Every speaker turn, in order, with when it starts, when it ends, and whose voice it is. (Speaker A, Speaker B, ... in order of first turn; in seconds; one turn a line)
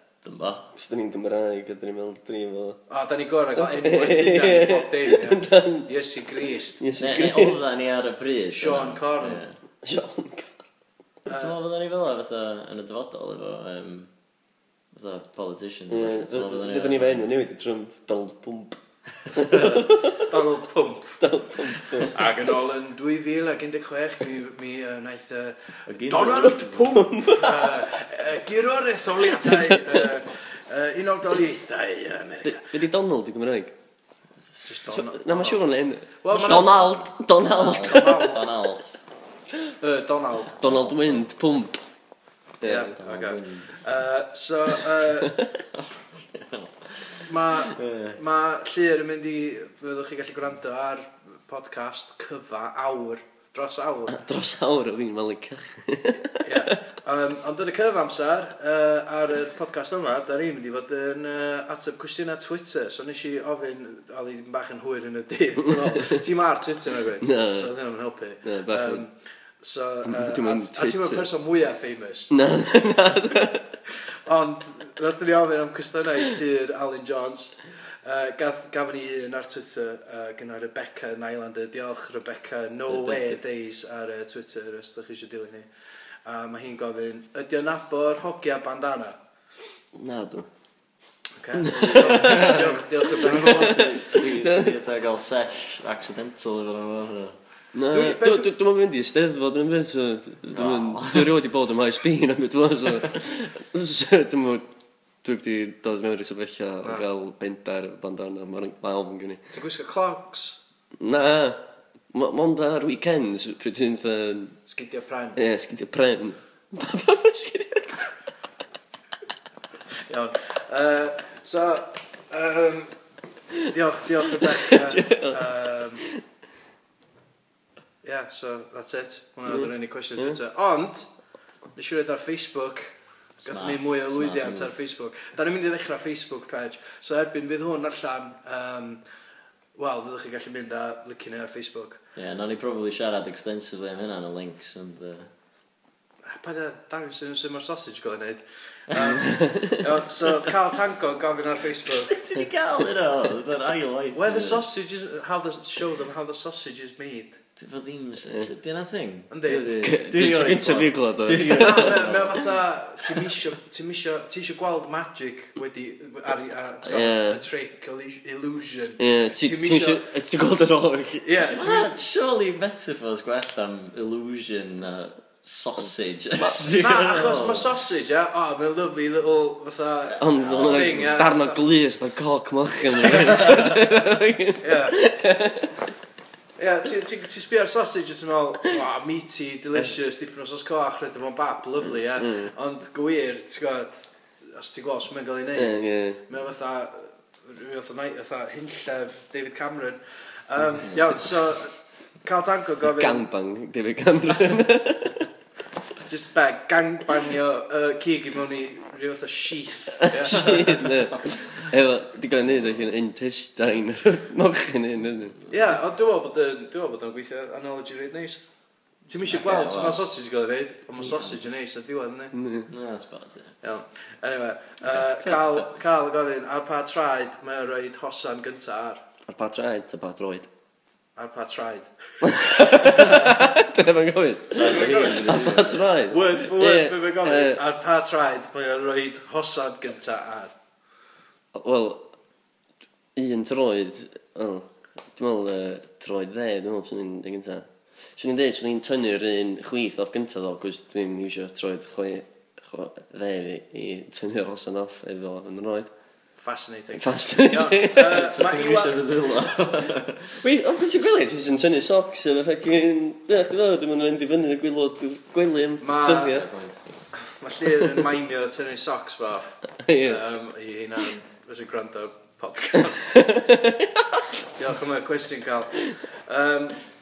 Speaker A: 0.2-0.7
Speaker B: 0.8-2.8
Speaker C: 2.9-6.8
Speaker B: 3.5-5.9
Speaker B: 6.8-7.6
Speaker A: 7.0-9.6
Speaker C: 8.5-9.4
Speaker B: 9.8-10.6
Speaker C: 11.3-11.5
Speaker A: 11.3-14.1
Speaker A: 14.9-17.3
Speaker B: 15.9-18.8
Speaker B: 19.3-20.3
Speaker C: 19.5-21.2
Speaker B: 21.2-22.2
Speaker C: 22.0-32.7
Speaker A: 25.9-26.8
Speaker B: 26.2-27.8
Speaker B: 29.4-30.1
Speaker B: 32.4-33.7
Speaker C: 34.6-35.6
Speaker B: 34.9-38.4
Speaker C: 36.2-36.8
Speaker A: 36.3-38.9
Speaker C: 37.6-38.5
Speaker C: 39.8-40.7
Speaker B: 40.6-41.8
Speaker B: 42.6-43.0
Speaker C: 42.6-45.4
Speaker A: 42.9-43.8
Speaker B: 45.1-45.5
Speaker A: 46.3-47.1
Speaker C: 47.2-54.2
Speaker A: 47.7-48.2
Speaker B: 54.1-56.7
Speaker C: 56.4-72.3
Speaker B: 65.6-66.2
Speaker B: 67.2-67.7
Speaker B: 68.4-69.0
Speaker B: 70.0-71.2
Speaker B: 72.3-73.7
Speaker C: 74.2-85.7
Speaker A: 82.9-83.3
Speaker C: 86.2-89.2
Speaker B: 89.9-90.5
Speaker C: 91.4-94.0
Speaker B: 91.6-94.7
Speaker A: 91.8-97.3
Speaker B: 97.7-104.7
Speaker C: 97.9-98.5
Speaker A: 100.5-101.3
Speaker B: 105.2-109.4
Speaker C: 109.5-110.6
Speaker B: 111.0-111.6
Speaker B: 112.1-114.6
Speaker C: 114.7-115.4
Speaker B: 115.3-118.1
Speaker C: 120.1-122.9
Speaker C: 123.7-126.0
Speaker B: 124.3-126.2
Speaker C: 128.0-131.1
Speaker B: 129.5-130.4
Speaker C: 131.7-139.0
Speaker A: 133.4-134.7
Speaker C: 139.8-142.0
Speaker A: 142.2-145.3
Speaker C: 146.3-152.4
Speaker B: 149.0-149.8
Speaker A: 152.0-154.7
Speaker C: 154.1-157.4
Speaker A: 157.6-162.4
Speaker C: 159.3-159.8
Speaker B: 159.7-162.4
Speaker C: 161.4-170.0
Speaker B: 166.8-167.4
Speaker B: 169.0-171.3
Speaker C: 171.2-171.9
Speaker A: 171.5-177.7
Speaker C: 176.7-181.6
Speaker B: 180.2-185.7
Speaker A: 180.4-180.9
Speaker C: 183.0-183.9
Speaker C: 184.6-185.0
Speaker C: 186.6-201.7
Speaker B: 192.1-192.5
Speaker B: 195.6-196.2
Speaker C: 202.2-203.2
Speaker B: 202.8-205.3
Speaker C: 206.1-211.0
Speaker B: 210.0-215.4
Speaker C: 215.5-218.4
Speaker C: 219.1-222.3
Speaker A: 219.2-220.0
Speaker A: 221.0-221.5
Speaker B: 222.3-222.7
Speaker A: 222.7-223.5
Speaker C: 223.6-229.0
Speaker A: 225.2-225.5
Speaker B: 229.3-230.5
Speaker C: 231.2-233.3
Speaker B: 232.2-237.6
Speaker A: 234.5-235.8
Speaker C: 234.5-240.5
Speaker B: 241.5-242.1
Speaker B: 243.2-255.9
Speaker C: 256.4-259.0
Speaker B: 256.9-258.4
Speaker A: 258.0-260.4
Speaker B: 260.4-266.5
Speaker C: 265.8-266.4
Speaker A: 266.2-266.8
Speaker C: 267.4-273.1
Speaker B: 269.8-270.2
Speaker B: 272.8-274.2
Speaker C: 274.6-276.8